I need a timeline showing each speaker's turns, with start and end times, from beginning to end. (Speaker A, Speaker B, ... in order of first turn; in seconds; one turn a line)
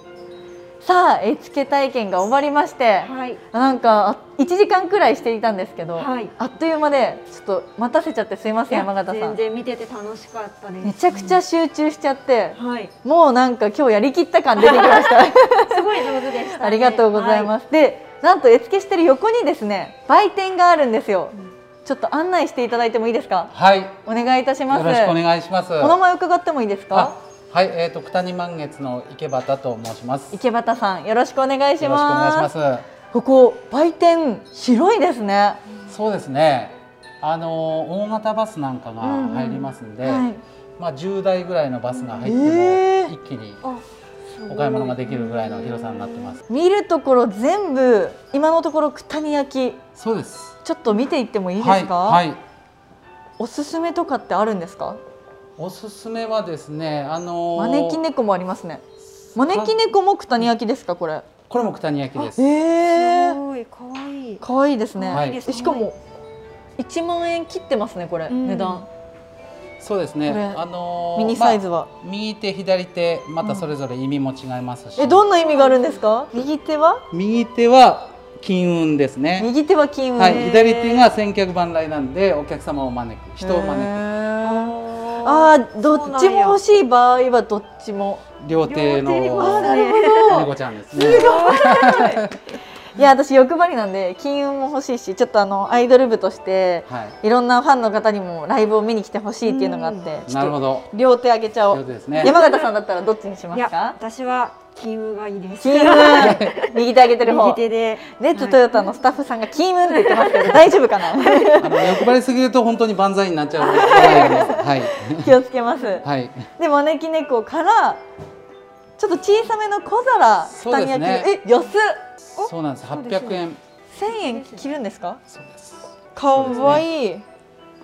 Speaker A: 0.8-9.4
Speaker B: 3.0-3.4
Speaker B: 6.0-6.3
Speaker B: 8.7-11.4
Speaker A: 10.8-15.8
Speaker B: 12.6-12.9
Speaker B: 14.6-15.1
Speaker B: 15.7-17.5
Speaker A: 16.6-23.5
Speaker C: 23.5-24.0
Speaker A: 24.1-25.2
Speaker C: 24.7-26.0
Speaker A: 25.8-27.1
Speaker C: 26.9-30.4
Speaker A: 30.3-32.5
Speaker C: 31.8-32.9
Speaker A: 33.1-35.6
Speaker C: 35.9-43.6
Speaker A: 39.0-40.4
Speaker A: 42.2-43.1
Speaker B: 43.6-46.4
Speaker C: 44.5-46.4
Speaker A: 46.5-49.8
Speaker C: 50.0-50.6
Speaker A: 50.6-52.2
Speaker C: 51.6-52.4
Speaker A: 53.4-55.0
Speaker C: 55.6-58.0
Speaker A: 57.6-58.8
Speaker C: 59.0-59.8
Speaker A: 59.4-61.3
Speaker C: 61.5-62.4
Speaker B: 62.2-64.5
Speaker A: 62.4-63.4
Speaker A: 64.4-66.0
Speaker B: 65.0-65.9
Speaker C: 65.1-65.5
Speaker A: 66.8-68.9
Speaker B: 68.3-68.8
Speaker C: 69.8-75.2
Speaker A: 70.3-70.6
Speaker A: 71.2-71.9
Speaker A: 75.0-77.0
Speaker B: 75.4-76.0
Speaker C: 77.1-79.5
Speaker A: 79.4-81.1
Speaker C: 80.2-84.0
Speaker A: 83.4-88.3
Speaker B: 84.4-86.6
Speaker C: 88.4-92.2
Speaker B: 88.5-91.9
Speaker A: 89.3-92.3
Speaker A: 93.0-104.0
Speaker C: 96.9-97.2
Speaker B: 99.5-100.1
Speaker C: 100.3-100.9
Speaker C: 101.7-102.4
Speaker B: 102.2-102.6
Speaker B: 103.5-108.9
Speaker A: 105.6-111.9
Speaker C: 106.1-106.5
Speaker B: 109.9-112.0
Speaker C: 111.6-115.4
Speaker A: 113.6-118.0
Speaker B: 113.7-114.5
Speaker C: 116.0-116.5
Speaker A: 119.0-122.0
Speaker C: 120.5-121.3
Speaker C: 122.3-123.6
Speaker B: 122.4-123.4
Speaker A: 123.9-125.2
Speaker B: 124.1-124.6
Speaker C: 125.3-126.9
Speaker A: 126.2-127.2
Speaker B: 126.4-126.8